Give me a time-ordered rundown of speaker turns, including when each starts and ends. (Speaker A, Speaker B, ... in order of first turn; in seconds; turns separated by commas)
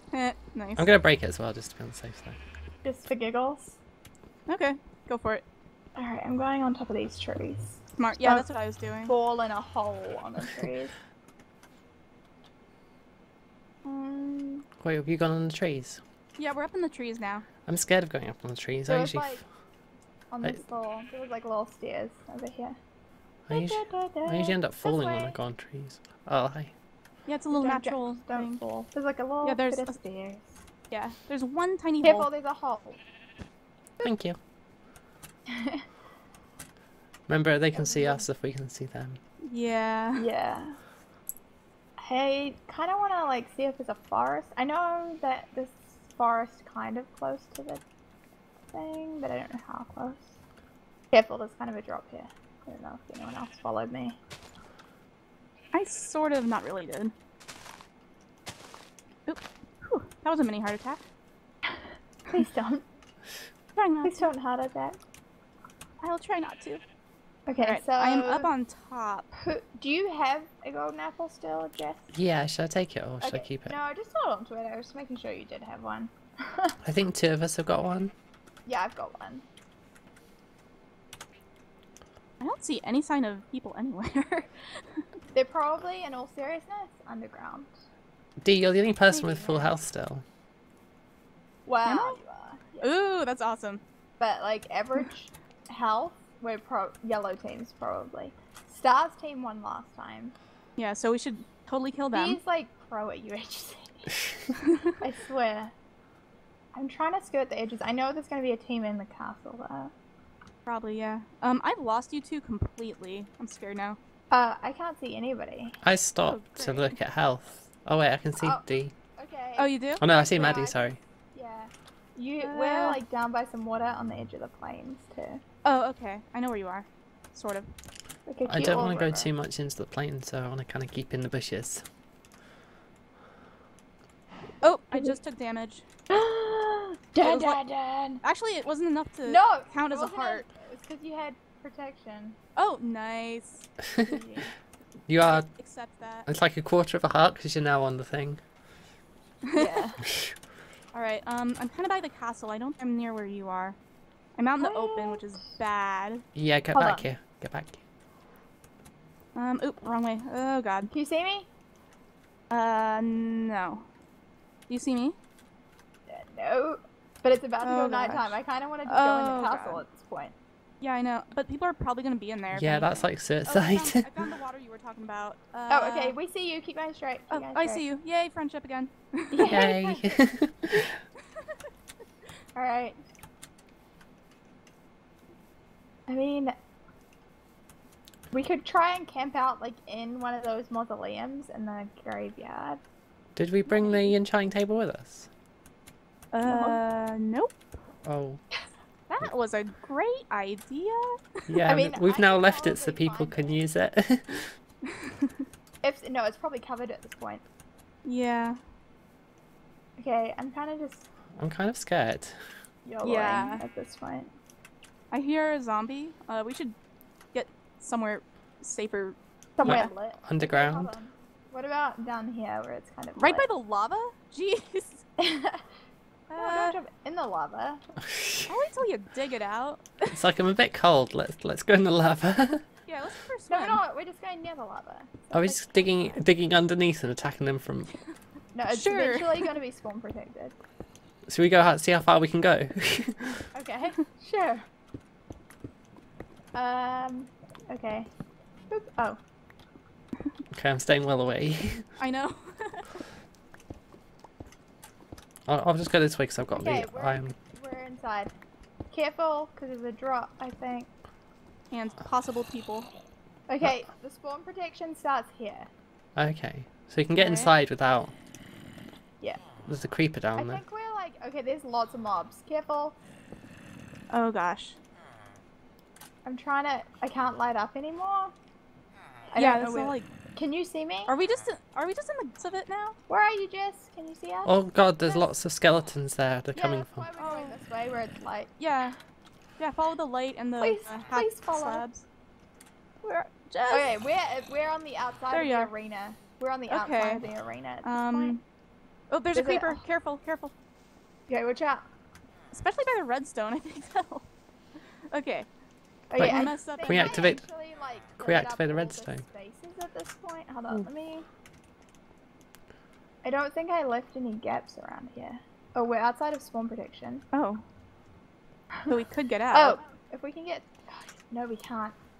Speaker A: 0.1-0.9, Speaker B: 0.8-2.4, Speaker C: 2.8-3.8, Speaker A: 4.5-5.4, Speaker C: 5.9-8.4, Speaker A: 8.0-9.1, Speaker C: 9.0-10.9, Speaker C: 13.8-14.6, Speaker B: 14.8-16.0, Speaker A: 16.4-17.4, Speaker B: 17.6-19.4, Speaker C: 18.9-19.4, Speaker C: 20.3-22.8, Speaker B: 23.5-26.7, Speaker C: 23.5-25.4, Speaker A: 27.3-28.5, Speaker C: 27.5-30.6, Speaker A: 29.4-30.0, Speaker A: 30.9-32.3, Speaker C: 32.0-33.0, Speaker B: 34.0-34.4, Speaker C: 35.5-35.8, Speaker B: 37.3-39.2, Speaker C: 37.7-38.3, Speaker A: 39.4-40.2, Speaker C: 40.1-40.8, Speaker C: 42.0-47.8, Speaker C: 48.7-50.3, Speaker C: 51.1-54.2, Speaker A: 55.7-57.1, Speaker A: 59.3-61.0, Speaker C: 61.7-62.8, Speaker A: 63.8-64.3, Speaker C: 64.0-65.0, Speaker A: 66.0-66.8, Speaker C: 67.5-68.5, Speaker A: 67.6-69.3, Speaker C: 69.3-72.1, Speaker B: 72.1-73.8, Speaker C: 73.2-76.8, Speaker B: 76.8-78.1, Speaker C: 78.7-79.4, Speaker A: 82.4-85.0, Speaker C: 85.3-87.7, Speaker B: 88.4-90.2, Speaker A: 89.1-89.7, Speaker C: 91.6-92.9, Speaker A: 91.8-92.2, Speaker A: 92.8-93.8, Speaker C: 94.2-100.3, Speaker A: 100.8-102.4, Speaker C: 102.1-104.2, Speaker C: 105.0-105.7, Speaker C: 106.7-109.9, Speaker A: 110.7-114.0, Speaker C: 114.3-115.8, Speaker B: 115.8-118.9, Speaker A: 116.2-117.0, Speaker C: 118.4-118.7, Speaker C: 119.2-125.4, Speaker A: 119.6-120.0, Speaker B: 120.0-121.0, Speaker A: 122.4-123.0, Speaker A: 125.6-127.7, Speaker C: 128.3-129.3, Speaker B: 128.5-131.8, Speaker A: 134.6-135.8, Speaker C: 136.1-138.2, Speaker A: 137.2-137.6, Speaker A: 138.2-140.4, Speaker C: 139.2-142.4, Speaker A: 142.6-143.7, Speaker C: 144.0-144.5, Speaker B: 145.1-145.5, Speaker A: 145.2-146.3, Speaker B: 146.3-148.4, Speaker A: 149.5-149.8, Speaker C: 149.5-150.0, Speaker A: 150.9-153.8, Speaker A: 154.4-156.2, Speaker C: 154.6-155.2, Speaker B: 156.3-157.8, Speaker C: 156.7-157.1, Speaker A: 159.3-160.9, Speaker C: 160.9-161.5, Speaker A: 162.5-163.8, Speaker A: 164.7-165.1, Speaker C: 166.1-170.3, Speaker A: 167.6-169.8, Speaker A: 170.8-176.2, Speaker B: 172.5-174.0, Speaker C: 175.7-177.8, Speaker A: 177.3-179.6, Speaker C: 179.3-180.1, Speaker B: 179.4-180.9, Speaker C: 182.5-183.0, Speaker C: 186.1-186.5, Speaker C: 188.3-192.8, Speaker B: 193.3-195.3, Speaker A: 193.7-194.1, Speaker A: 196.3-197.6, Speaker C: 196.4-196.8, Speaker B: 198.0-198.4, Speaker A: 199.1-201.6, Speaker B: 201.5-204.5, Speaker C: 201.6-203.6, Speaker C: 205.8-207.4, Speaker A: 208.0-208.6, Speaker C: 210.0-211.1, Speaker B: 211.4-212.4, Speaker C: 212.8-214.3, Speaker A: 213.0-213.6, Speaker A: 215.1-216.7, Speaker A: 217.3-219.9, Speaker C: 219.6-223.5, Speaker B: 219.6-220.9, Speaker A: 223.2-225.0, Speaker C: 225.2-225.6, Speaker A: 226.3-226.8, Speaker C: 226.4-227.8, Speaker B: 228.1-228.5, Speaker A: 228.5-230.2, Speaker B: 230.1-232.6, Speaker A: 232.8-233.8, Speaker C: 233.5-236.1, Speaker B: 235.3-237.9, Speaker C: 238.5-240.6, Speaker A: 238.7-239.6, Speaker B: 241.3-243.4, Speaker C: 243.5-244.7, Speaker C: 246.5-248.1, Speaker C: 248.7-249.2, Speaker B: 250.5-251.8, Speaker A: 252.0-253.0, Speaker B: 255.5-257.3, Speaker C: 256.5-258.3, Speaker C: 258.9-260.9, Speaker A: 261.7-262.9, Speaker C: 263.5-265.7, Speaker B: 266.1-268.1, Speaker A: 267.2-267.5, Speaker B: 269.7-270.6, Speaker C: 270.4-272.9, Speaker A: 274.1-274.8, Speaker C: 276.2-278.3, Speaker C: 279.3-281.1, Speaker A: 279.3-280.1, Speaker A: 281.1-282.9, Speaker C: 283.1-284.5, Speaker B: 284.4-287.1, Speaker C: 285.0-285.3, Speaker C: 286.5-288.5, Speaker A: 287.2-287.6, Speaker A: 288.6-289.0, Speaker A: 289.6-292.0, Speaker C: 290.6-291.8, Speaker C: 293.0-298.4, Speaker A: 293.5-293.9, Speaker A: 295.3-295.7, Speaker A: 296.7-297.2, Speaker A: 297.8-298.4, Speaker A: 299.1-300.5, Speaker C: 299.3-299.8, Speaker C: 301.3-301.8, Speaker A: 302.5-304.3, Speaker A: 305.1-305.5, Speaker C: 306.1-311.2, Speaker A: 306.1-307.3, Speaker B: 306.2-307.4, Speaker B: 308.2-309.2, Speaker C: 313.2-317.2, Speaker A: 317.3-317.6, Speaker A: 318.9-319.8, Speaker C: 319.5-321.9